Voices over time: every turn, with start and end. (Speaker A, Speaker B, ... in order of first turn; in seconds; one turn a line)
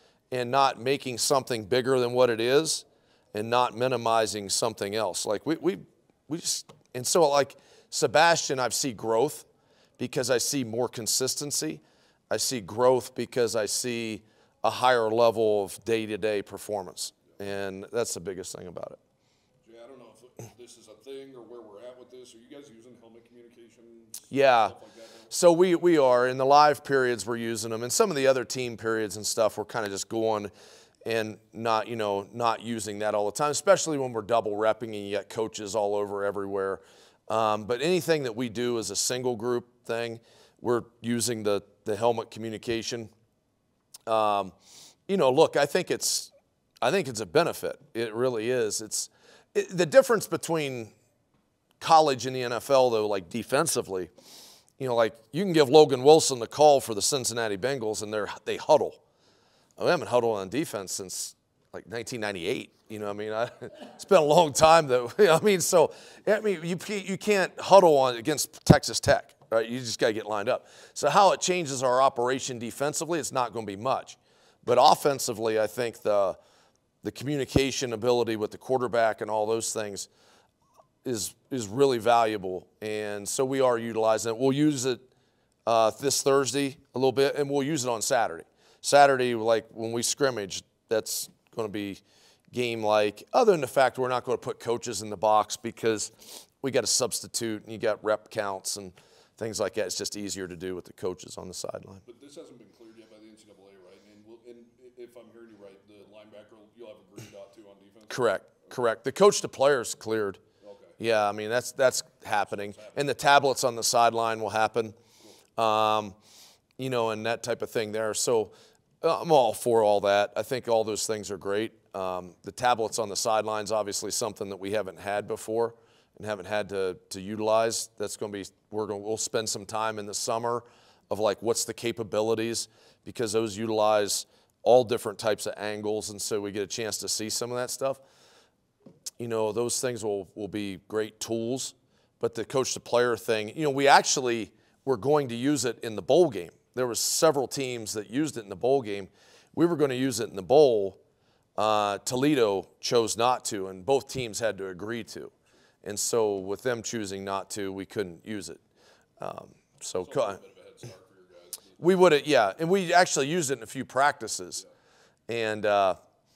Speaker A: 0.3-9.4
Speaker A: 10.0-19.0
Speaker B: 19.6-25.5
Speaker A: 24.3-24.8
Speaker A: 25.3-30.5
Speaker A: 31.0-43.1
Speaker A: 44.1-44.5
Speaker A: 45.1-46.3
Speaker A: 46.8-50.9
Speaker A: 51.8-54.1
Speaker A: 54.8-59.0
Speaker A: 59.8-76.4
Speaker A: 77.0-80.1
Speaker A: 81.0-85.0
Speaker A: 85.7-102.0
Speaker B: 102.0-108.8
Speaker A: 108.1-110.4
Speaker B: 110.6-111.0
Speaker A: 111.0-115.0
Speaker B: 112.3-113.2
Speaker A: 115.6-116.2
Speaker A: 116.8-138.0
Speaker A: 139.2-151.0
Speaker A: 151.6-155.3
Speaker A: 155.8-158.6
Speaker A: 159.2-160.4
Speaker B: 160.0-162.1
Speaker A: 161.8-164.6
Speaker A: 165.3-166.0